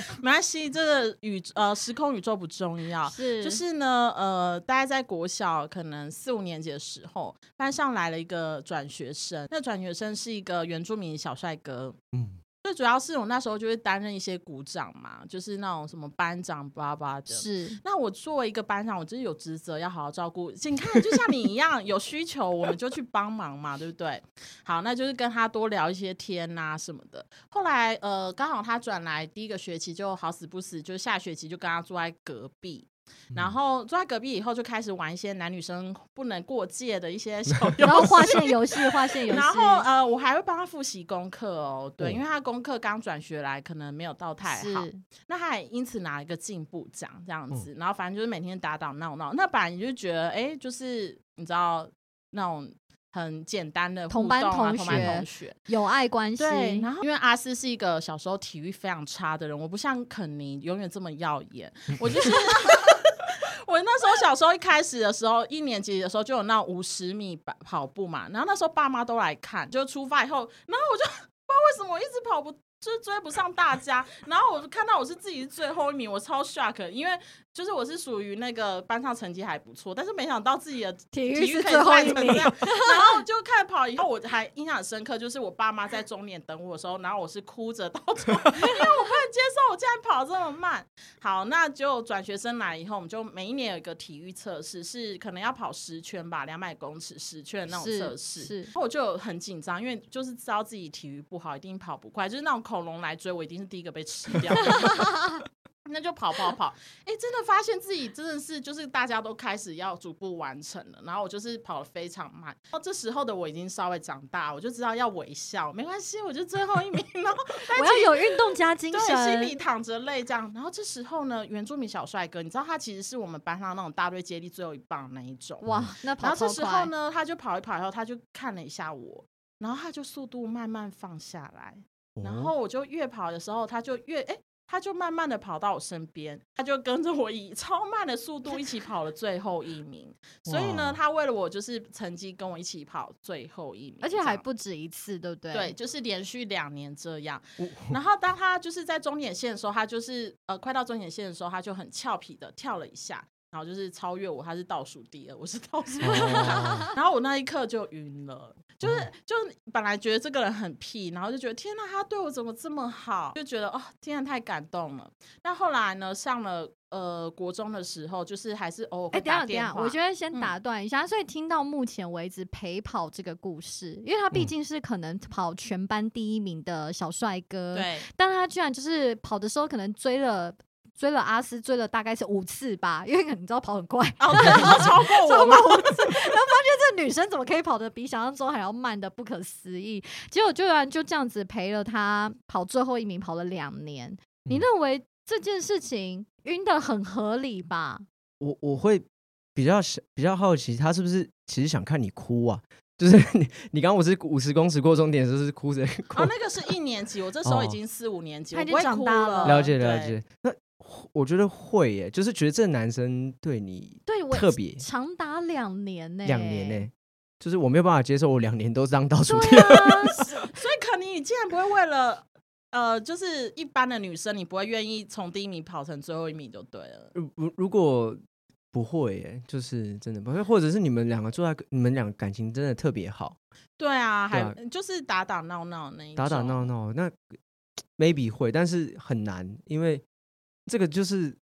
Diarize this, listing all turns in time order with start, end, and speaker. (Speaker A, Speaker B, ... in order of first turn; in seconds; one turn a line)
Speaker A: 0.2-12.0
Speaker B: 3.0-3.6
Speaker C: 12.1-12.4
Speaker A: 12.6-38.6
Speaker B: 17.3-17.8
Speaker B: 37.8-39.9
Speaker A: 39.3-55.6
Speaker B: 44.4-45.0
Speaker B: 54.1-56.9
Speaker C: 54.9-55.2
Speaker A: 56.4-105.2
Speaker B: 81.1-83.2
Speaker B: 97.7-98.7
Speaker B: 104.7-105.4
Speaker A: 105.8-125.7
Speaker B: 117.7-119.6
Speaker B: 125.6-126.9
Speaker C: 125.6-125.9
Speaker A: 126.2-144.4
Speaker C: 132.2-132.5
Speaker C: 140.5-141.0
Speaker B: 144.0-145.7
Speaker A: 145.5-170.6
Speaker C: 147.6-148.0
Speaker C: 156.0-156.9
Speaker B: 156.1-156.9
Speaker C: 158.8-159.1
Speaker B: 169.1-198.1
Speaker A: 177.7-178.1
Speaker A: 184.2-186.2
Speaker C: 198.4-206.3
Speaker A: 206.1-210.2
Speaker C: 207.4-207.8
Speaker B: 208.5-209.7
Speaker C: 209.4-214.8
Speaker B: 214.1-216.9
Speaker C: 216.2-220.2
Speaker B: 219.3-220.4
Speaker A: 220.4-227.1
Speaker C: 227.1-228.2
Speaker C: 228.7-233.4
Speaker A: 233.8-236.7
Speaker C: 234.3-234.6
Speaker C: 236.2-237.2
Speaker C: 238.0-240.0
Speaker C: 240.7-241.4